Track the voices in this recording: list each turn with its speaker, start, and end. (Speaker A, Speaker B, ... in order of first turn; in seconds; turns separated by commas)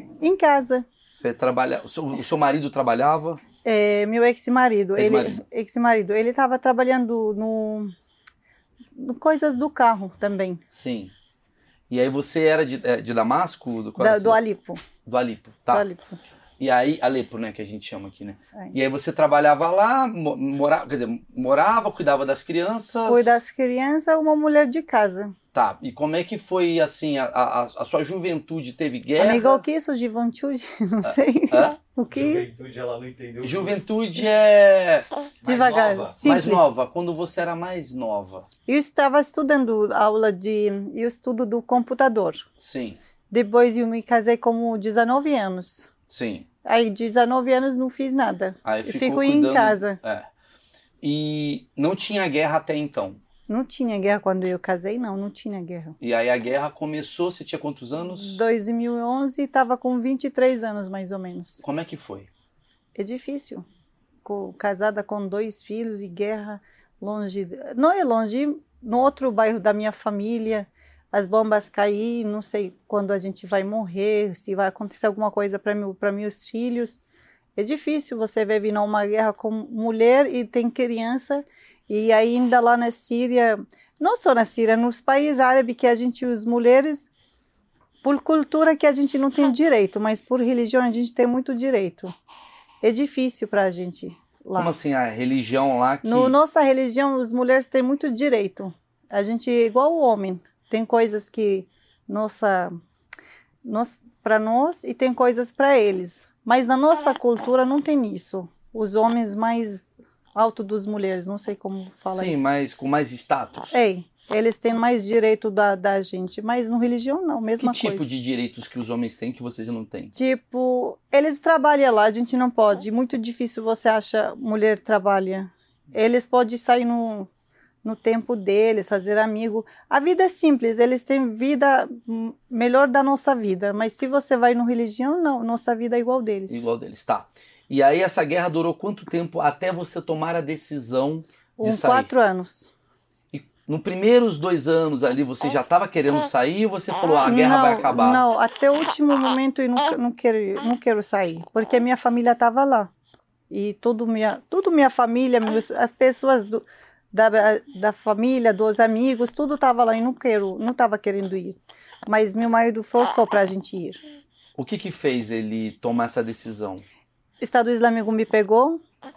Speaker A: 0.2-0.9, Speaker B: 1.1-3.4, Speaker A: 3.6-7.9, Speaker B: 5.0-5.4, Speaker A: 9.0-10.6, Speaker B: 10.7-11.1, Speaker B: 11.9-14.4, Speaker A: 14.0-14.8, Speaker B: 15.1-15.9, Speaker A: 15.7-16.2, Speaker B: 16.6-23.4, Speaker A: 23.1-25.4, Speaker B: 25.5-29.6, Speaker A: 29.2-32.4, Speaker B: 31.0-31.8, Speaker C: 32.1-33.8, Speaker B: 33.4-35.1, Speaker C: 35.4-36.2, Speaker A: 35.4-36.6, Speaker B: 36.2-38.5, Speaker A: 38.7-42.5, Speaker B: 42.6-43.0, Speaker A: 43.3-45.9, Speaker B: 46.1-46.5, Speaker A: 46.6-50.0, Speaker B: 48.6-50.3, Speaker B: 51.0-53.2, Speaker A: 53.5-56.0, Speaker B: 56.0-58.4, Speaker A: 58.1-61.6, Speaker B: 61.6-62.3, Speaker A: 63.0-63.7, Speaker A: 64.2-77.0, Speaker A: 77.6-87.1, Speaker A: 88.0-92.1, Speaker A: 92.8-94.7, Speaker B: 94.6-96.4, Speaker A: 96.0-102.8, Speaker A: 103.6-112.4, Speaker B: 112.2-113.7, Speaker A: 113.7-118.0, Speaker B: 117.6-120.1, Speaker A: 120.1-127.3, Speaker A: 127.8-136.7, Speaker B: 136.5-142.1, Speaker A: 141.6-142.7, Speaker B: 143.3-148.2, Speaker A: 147.2-152.9, Speaker A: 153.5-164.0, Speaker B: 164.6-166.9, Speaker A: 167.4-168.8